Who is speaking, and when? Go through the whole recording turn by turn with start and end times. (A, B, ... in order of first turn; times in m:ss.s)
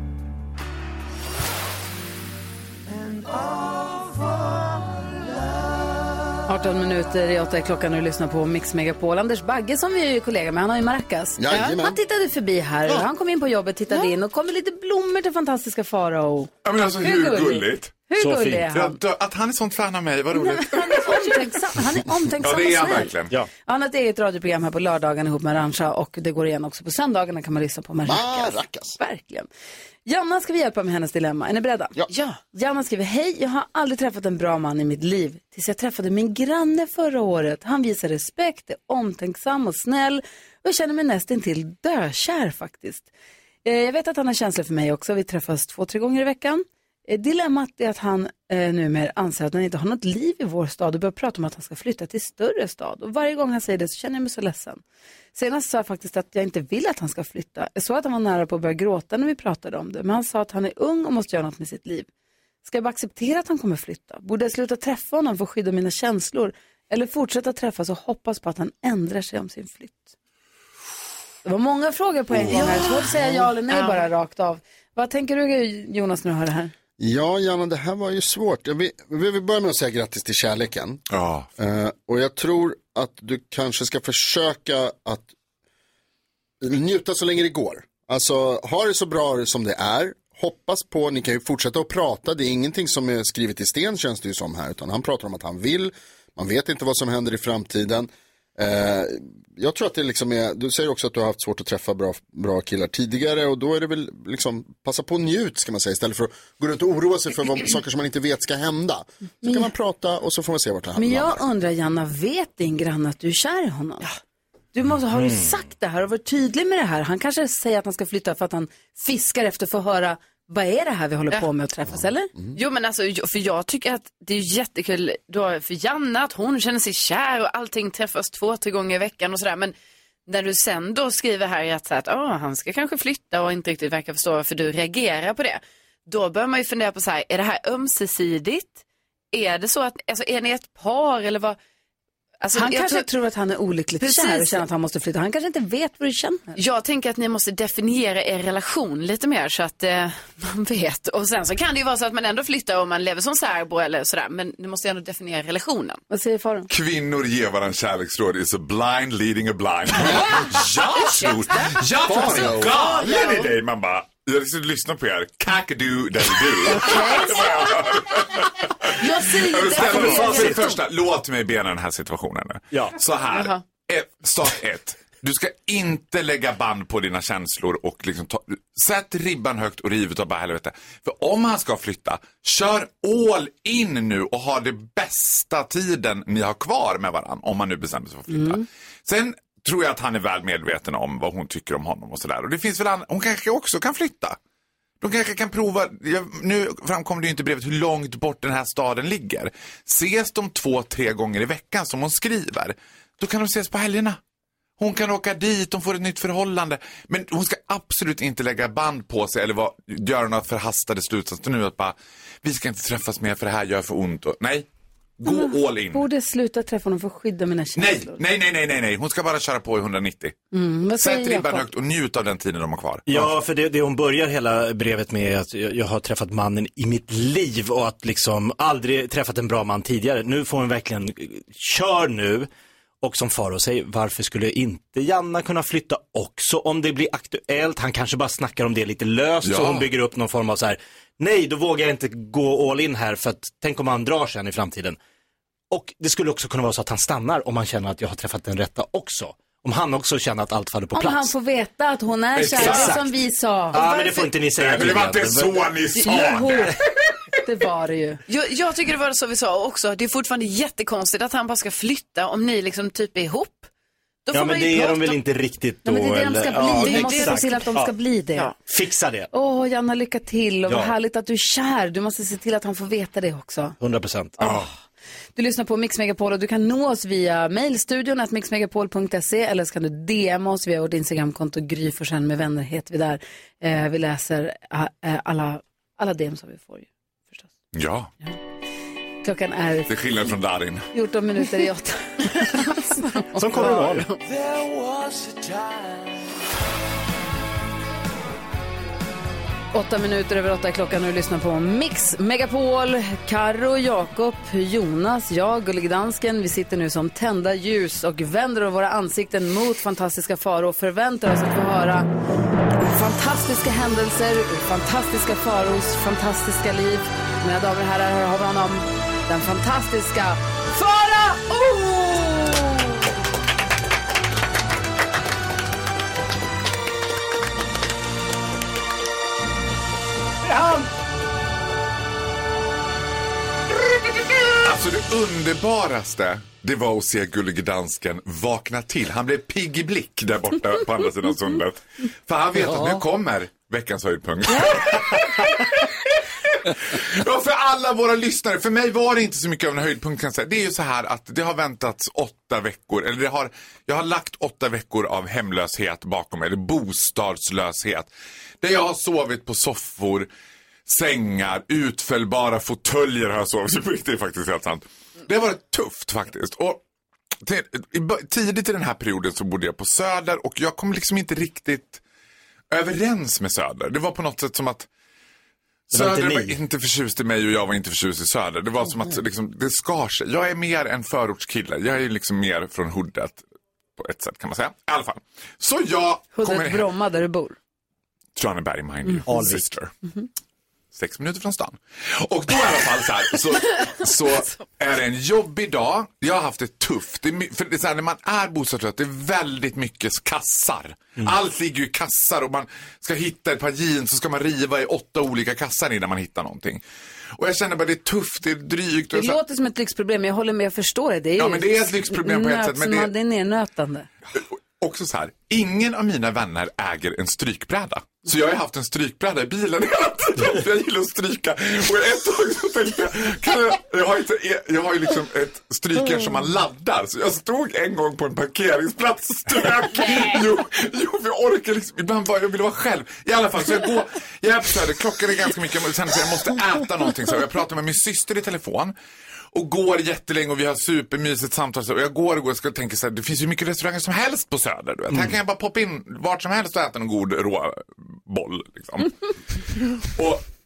0:06.5-0:19.0 A
0:11.4-0:12.0 B
0:16.6-0:17.9 C
0:18.2-0:18.7 D
0:18.7-0:21.3 C
0:20.3-0:23.1 A
0:22.4-0:23.4 C
0:23.6-0:29.5 A
0:28.0-0:29.0 B
0:30.0-0:31.9 A
0:32.1-0:32.4 E
0:32.5-0:43.1 A
0:43.6-0:54.8 A
0:55.3-1:02.1 A
1:02.6-1:10.1 A
1:11.4-1:16.7 A
1:12.3-1:13.4 B
1:12.5-1:13.2 E
1:13.7-1:14.0 E
1:17.0-1:21.0 B
1:21.1-1:21.5 C
1:21.6-1:25.3 B
1:26.6-1:51.4 B
1:49.4-1:49.7 A
1:51.0-1:54.1 A
1:54.7-2:02.3 A
1:55.1-1:55.5 D
2:02.5-2:09.7 E
2:10.3-2:21.6 E
2:22.4-2:23.0 E
2:22.5-2:26.6 A
2:24.0-2:24.6 E
2:26.6-2:36.0 E
2:36.1-2:36.7 A
2:36.7-3:14.4 C
2:41.2-2:41.7 E
2:42.0-2:43.4 B
2:42.9-2:43.4 E
2:46.7-2:47.7 E
2:46.8-2:47.2 A
2:49.0-2:50.7 E
2:49.7-2:50.8 D
2:52.7-2:53.0 D
2:53.3-2:53.6 E
3:08.3-3:08.6 A
3:15.0-3:24.2 C
3:24.8-3:34.7 C
3:35.2-3:36.0 C
3:35.2-3:38.2 A
3:37.7-3:40.4 C
3:40.5-3:41.6 A
3:41.0-3:43.3 C
3:43.0-3:52.5 D
3:53.0-4:05.0 D
3:59.4-3:59.9 C
4:05.7-4:11.3 D
4:10.9-4:14.3 A
4:12.3-4:12.9 C
4:12.6-4:13.1 D
4:13.7-4:16.8 D
4:14.6-4:16.7 C
4:16.0-4:16.7 A
4:17.4-4:18.2 A
4:18.3-4:23.7 E
4:24.3-4:25.2 E
4:24.3-4:27.9 D
4:25.8-4:28.5 A
4:26.7-4:27.7 E
4:28.7-4:29.3 D
4:29.3-4:33.8 A
4:30.7-4:30.9 D
4:33.8-4:34.7 D
4:34.4-4:34.7 A
4:35.4-4:47.5 A
4:47.7-4:48.1 C
4:49.2-4:49.9 A
4:49.9-4:50.9 C
4:50.9-4:53.7 A
4:53.4-4:54.1 D
4:53.6-4:54.1 E
4:59.7-5:12.1 A
5:12.8-5:22.8 A
5:34.6-5:58.1 C
5:58.6-6:00.3 C
6:00.8-6:06.8 C
6:07.4-6:12.0 C
6:12.7-6:14.9 C
6:15.9-6:23.4 C
6:15.9-6:16.6 D
6:24.0-6:26.9 C
6:26.3-6:27.6 A
6:28.4-6:29.9 C
6:29.2-6:29.7 D
6:30.9-6:46.8 C
6:47.4-6:49.4 C
6:49.1-6:54.1 A
6:51.4-6:53.1 C
6:54.4-7:18.9 C
7:19.5-7:30.4 C
7:25.1-7:25.4 D